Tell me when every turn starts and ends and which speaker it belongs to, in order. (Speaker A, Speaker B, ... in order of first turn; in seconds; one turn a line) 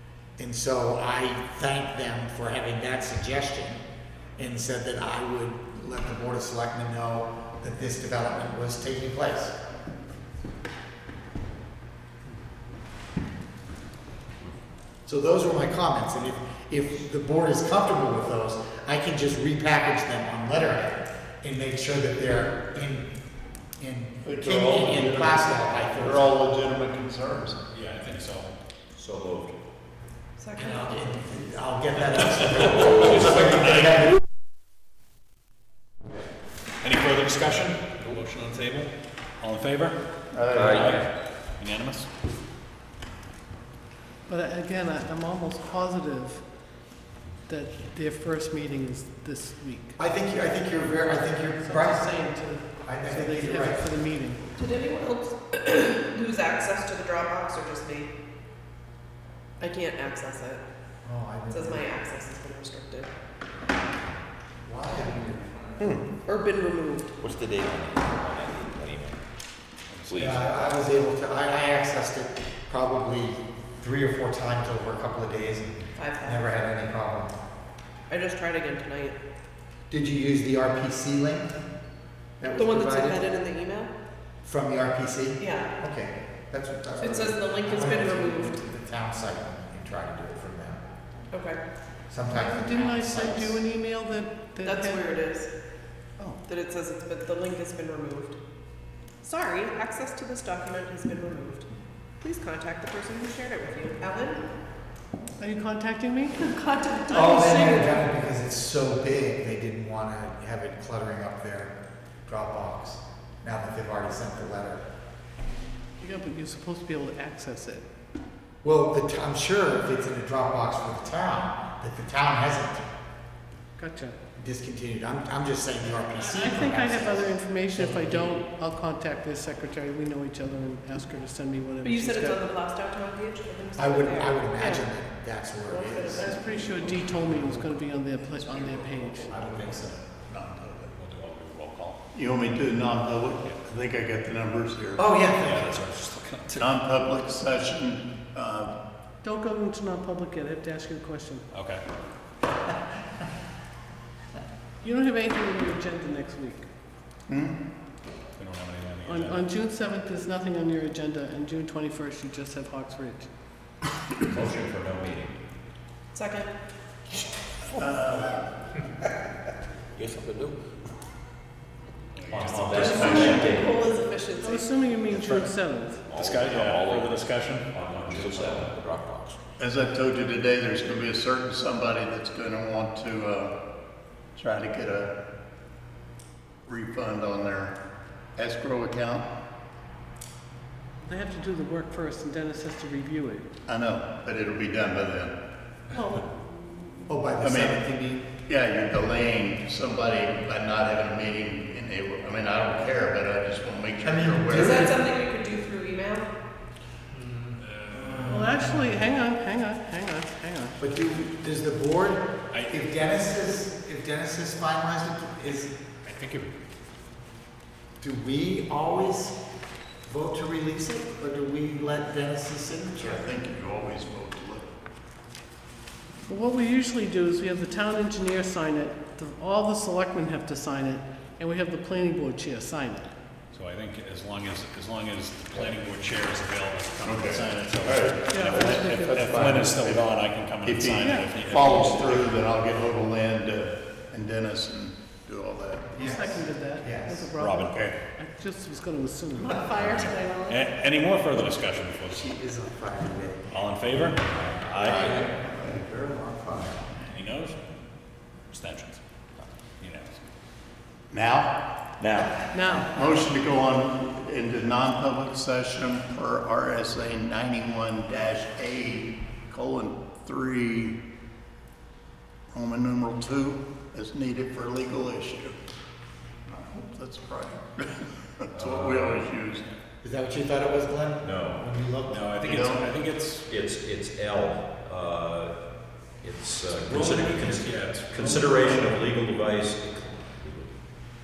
Speaker A: 0.4-3.8
Speaker A: 4.4-9.6
Speaker A: 15.1-23.1
Speaker A: 23.8-26.4
Speaker B: 24.2-27.6
Speaker C: 27.7-28.5
Speaker D: 28.9-29.5
Speaker E: 30.4-31.0
Speaker A: 30.6-34.1
Speaker C: 32.6-34.1
Speaker C: 36.8-40.0
Speaker B: 40.3-40.9
Speaker D: 40.5-41.0
Speaker C: 40.6-42.1
Speaker F: 44.3-46.4
Speaker F: 47.5-50.0
Speaker A: 50.0-52.1
Speaker F: 51.6-54.4
Speaker A: 52.8-53.9
Speaker E: 54.6-58.1
Speaker E: 59.6-60.6
Speaker A: 61.0-61.8
Speaker E: 61.5-63.1
Speaker A: 64.6-65.8
Speaker D: 65.8-66.0
Speaker E: 66.2-67.1
Speaker D: 67.2-69.2
Speaker C: 69.9-70.4
Speaker D: 70.1-70.4
Speaker A: 70.2-77.3
Speaker E: 76.0-76.5
Speaker E: 78.1-79.2
Speaker A: 79.9-81.5
Speaker A: 82.4-83.2
Speaker E: 82.5-83.9
Speaker A: 84.4-90.8
Speaker E: 85.4-85.7
Speaker E: 87.0-88.6
Speaker E: 91.3-91.6
Speaker A: 92.1-93.6
Speaker F: 92.3-95.1
Speaker E: 94.6-95.5
Speaker E: 96.5-98.4
Speaker E: 99.2-101.7
Speaker E: 102.2-104.4
Speaker F: 105.4-106.5
Speaker E: 106.4-107.9
Speaker A: 107.1-111.7
Speaker A: 112.2-114.8
Speaker F: 116.0-117.8
Speaker A: 118.6-122.9
Speaker F: 123.8-124.2
Speaker A: 124.3-128.4
Speaker F: 126.2-132.4
Speaker E: 131.8-134.8
Speaker A: 133.8-137.6
Speaker E: 135.7-136.4
Speaker F: 136.2-139.4
Speaker A: 138.4-140.9
Speaker C: 140.9-142.0
Speaker B: 142.1-145.0
Speaker A: 145.0-145.8
Speaker C: 145.4-146.7
Speaker B: 146.5-148.7
Speaker F: 149.2-151.5
Speaker C: 151.5-151.8
Speaker F: 154.8-156.7
Speaker B: 157.3-157.6
Speaker C: 158.4-159.4
Speaker F: 159.1-163.3
Speaker D: 164.3-165.3
Speaker E: 166.1-166.5
Speaker B: 167.8-168.4
Speaker D: 169.9-170.5
Speaker C: 172.2-173.5
Speaker D: 172.3-173.8
Speaker E: 172.7-174.8
Speaker B: 172.9-173.4
Speaker F: 174.4-176.1
Speaker D: 175.1-175.5
Speaker D: 176.1-177.2
Speaker C: 176.1-178.6
Speaker D: 177.7-179.3
Speaker B: 179.6-183.5
Speaker B: 184.3-185.1
Speaker B: 186.7-187.7
Speaker B: 188.3-189.3
Speaker F: 191.0-193.5
Speaker B: 193.7-195.3
Speaker F: 195.9-196.2
Speaker A: 197.1-198.2
Speaker B: 197.4-197.8
Speaker B: 198.5-204.9
Speaker A: 204.0-205.0
Speaker E: 204.5-206.3
Speaker C: 207.6-208.8
Speaker A: 207.9-208.8
Speaker F: 208.2-210.8
Speaker A: 210.8-215.7
Speaker C: 212.5-212.9
Speaker C: 216.0-216.5
Speaker A: 218.0-219.4
Speaker A: 220.1-223.3
Speaker B: 223.0-224.7
Speaker F: 226.3-233.1
Speaker C: 233.5-242.3
Speaker B: 237.0-240.1
Speaker F: 238.3-239.2
Speaker B: 240.6-245.9
Speaker F: 241.0-241.3
Speaker A: 245.9-247.3
Speaker F: 246.0-250.7
Speaker C: 247.4-247.8
Speaker B: 247.6-247.9
Speaker E: 249.6-250.2
Speaker C: 249.8-252.3
Speaker A: 252.1-253.6
Speaker C: 253.5-255.2
Speaker A: 254.3-256.9
Speaker C: 257.1-257.6
Speaker C: 258.5-259.0
Speaker C: 259.8-260.2
Speaker B: 261.1-261.6
Speaker C: 262.0-262.3
Speaker F: 262.5-262.9
Speaker B: 262.8-271.0
Speaker B: 272.5-275.6
Speaker B: 276.5-279.6
Speaker D: 278.5-279.2
Speaker A: 280.0-282.2
Speaker D: 281.2-281.6
Speaker C: 282.1-283.5
Speaker B: 282.4-282.8
Speaker D: 283.5-285.5
Speaker D: 286.2-290.7
Speaker C: 286.7-289.0